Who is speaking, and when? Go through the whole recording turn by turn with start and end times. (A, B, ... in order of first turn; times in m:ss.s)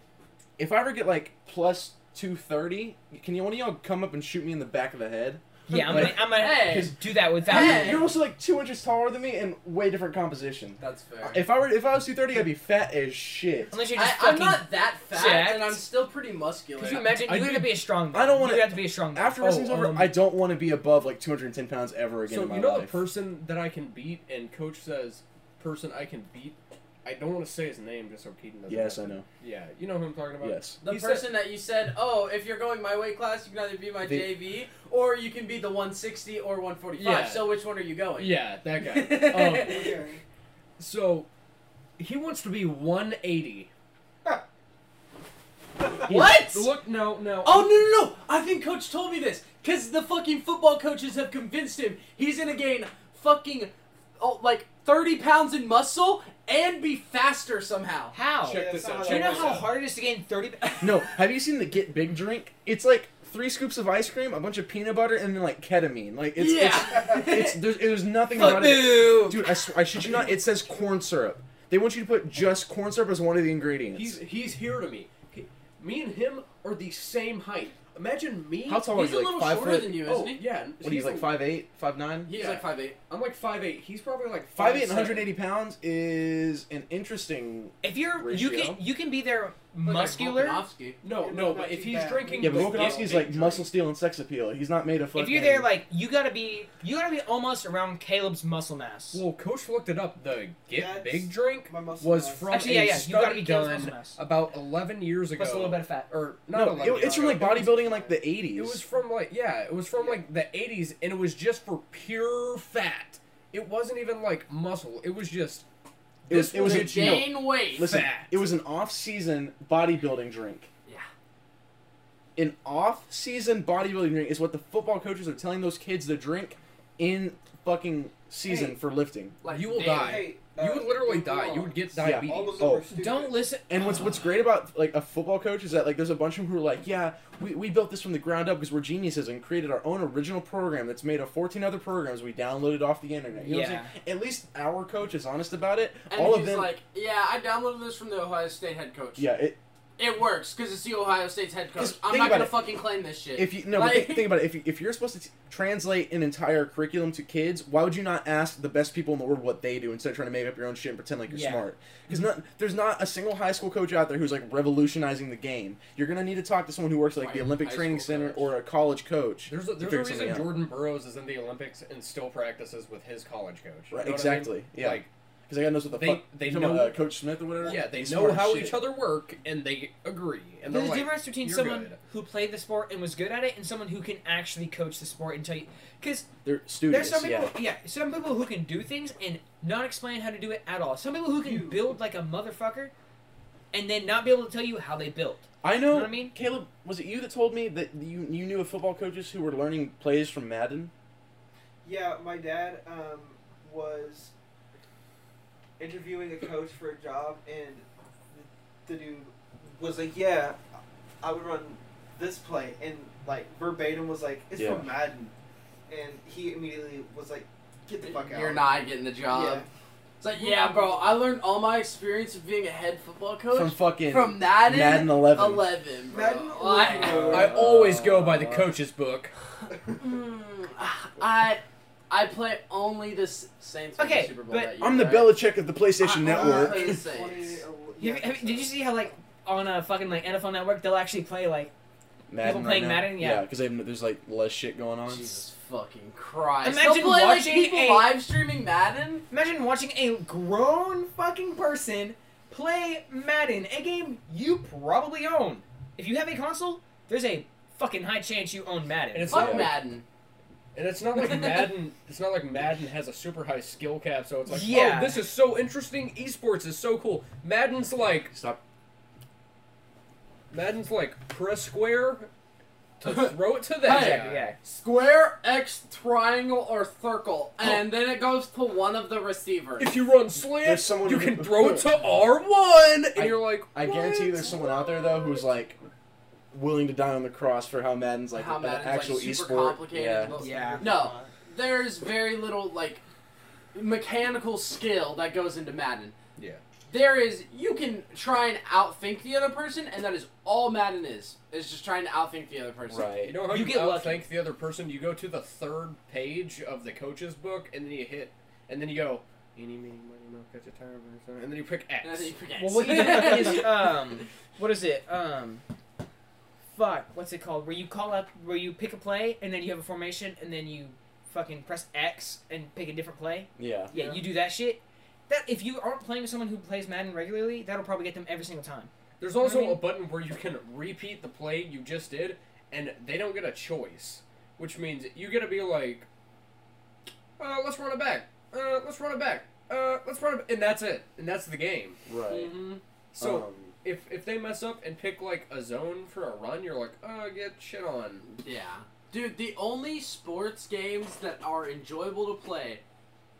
0:00.6-0:13.7 A
0:05.7-0:08.0 B
0:05.8-0:08.1 C
0:10.8-0:11.5 C
0:13.7-0:15.8 B
0:13.9-0:17.1 C
0:16.8-0:19.4 B
0:16.8-0:17.8 D
0:18.1-0:23.0 A
0:19.4-0:20.1 D
0:22.3-0:31.3 D
0:28.7-0:29.2 A
0:30.4-0:30.8 A
0:30.8-0:39.9 C
0:34.0-0:34.3 A
0:37.0-0:37.5 D
0:38.1-0:40.0 D
0:39.6-0:40.2 E
0:40.8-0:41.3 D
0:42.0-0:43.7 D
0:46.0-0:47.7 D
0:46.0-0:46.7 C
0:47.4-0:58.1 C
0:58.1-1:01.1 B
0:58.4-0:59.7 D
0:58.5-0:59.7 E
1:00.8-1:14.2 A
1:06.4-1:07.6 C
1:08.3-1:09.4 B
1:13.9-1:18.9 D
1:18.6-1:20.1 A
1:18.9-1:20.4 C
1:20.0-1:21.4 D
1:20.8-1:22.3 A
1:22.2-1:23.0 C
1:22.3-1:25.3 D
1:24.5-1:28.8 A
1:27.8-1:30.6 B
1:29.8-1:31.0 C
1:31.0-1:33.7 D
1:31.1-1:33.2 E
1:32.4-1:35.7 A
1:35.1-1:39.2 B
1:39.1-1:47.7 D
1:40.7-1:42.8 E
1:42.5-1:44.2 B
1:45.4-1:46.1 B
1:46.5-1:48.8 A
1:46.8-1:48.2 E
1:48.5-1:55.6 D
1:50.0-1:50.2 E
1:56.3-1:58.3 D
1:56.3-2:00.7 A
1:56.5-1:57.9 C
1:57.9-1:58.2 B
2:02.4-2:09.4 A
2:09.4-2:10.3 C
2:09.4-2:12.8 D
2:09.8-2:13.4 E
2:12.0-2:12.8 A
2:12.9-2:13.8 B
2:13.7-2:26.8 A
2:23.4-2:23.9 B
2:26.1-2:29.3 C
2:29.2-2:29.6 A
2:30.0-2:34.3 C
2:31.8-2:32.7 A
2:33.3-2:50.6 A
2:41.3-2:41.6 B
2:47.2-2:48.5 C
2:49.5-2:55.1 D
2:53.9-2:58.9 A
2:55.9-2:57.0 D
2:57.6-3:02.0 D
3:00.6-3:06.3 B
3:06.4-3:07.5 A
3:06.9-3:12.9 B
3:11.4-3:12.0 E
3:13.7-3:16.3 B
3:15.6-3:20.9 A
3:21.8-3:24.3 E
3:25.8-3:30.6 E
3:31.2-3:35.3 E
3:34.6-3:34.8 A
3:35.9-3:39.7 E
3:38.0-3:39.6 C
3:40.2-3:47.7 C
3:40.3-3:41.2 E
3:43.5-3:45.7 A
3:46.1-3:47.6 E
3:46.8-3:47.2 B
3:47.3-3:49.3 D
3:47.3-3:48.6 A
3:49.9-3:55.4 C
3:54.0-3:54.7 B
3:54.8-3:57.0 A
3:56.0-3:57.6 C
3:56.1-3:59.0 E
3:58.0-4:01.7 B
4:02.3-4:05.5 A
4:02.4-4:03.5 B
4:05.0-4:09.3 C
4:06.6-4:08.2 B
4:09.3-4:19.6 B
4:19.1-4:19.8 D
4:19.3-4:20.0 C
4:19.3-4:19.7 A
4:20.7-4:28.3 D
4:21.1-4:21.7 C
4:24.5-4:25.2 B
4:28.3-4:28.6 A
4:30.5-4:32.3 D
4:33.0-4:34.5 D
4:33.0-4:39.9 C
4:33.9-4:34.6 B
4:39.8-4:44.6 D
4:40.6-4:41.9 A
4:43.1-4:45.8 A
4:46.5-4:50.4 A
4:48.3-4:53.0 C
4:50.3-4:51.3 E
4:50.3-4:51.0 B
4:53.7-4:56.2 C
4:56.9-5:03.1 C
5:02.9-5:03.4 A
5:03.2-5:12.3 D
5:03.5-5:04.2 B
5:12.0-5:13.9 C
5:12.6-5:15.6 B
5:12.9-5:13.2 D
5:16.7-5:29.9 B
5:23.6-5:23.9 A
5:29.2-5:36.1 D
5:37.4-5:48.2 D
5:42.0-5:42.5 A
5:42.3-5:42.8 C
5:43.2-5:43.7 A
5:48.2-5:52.8 C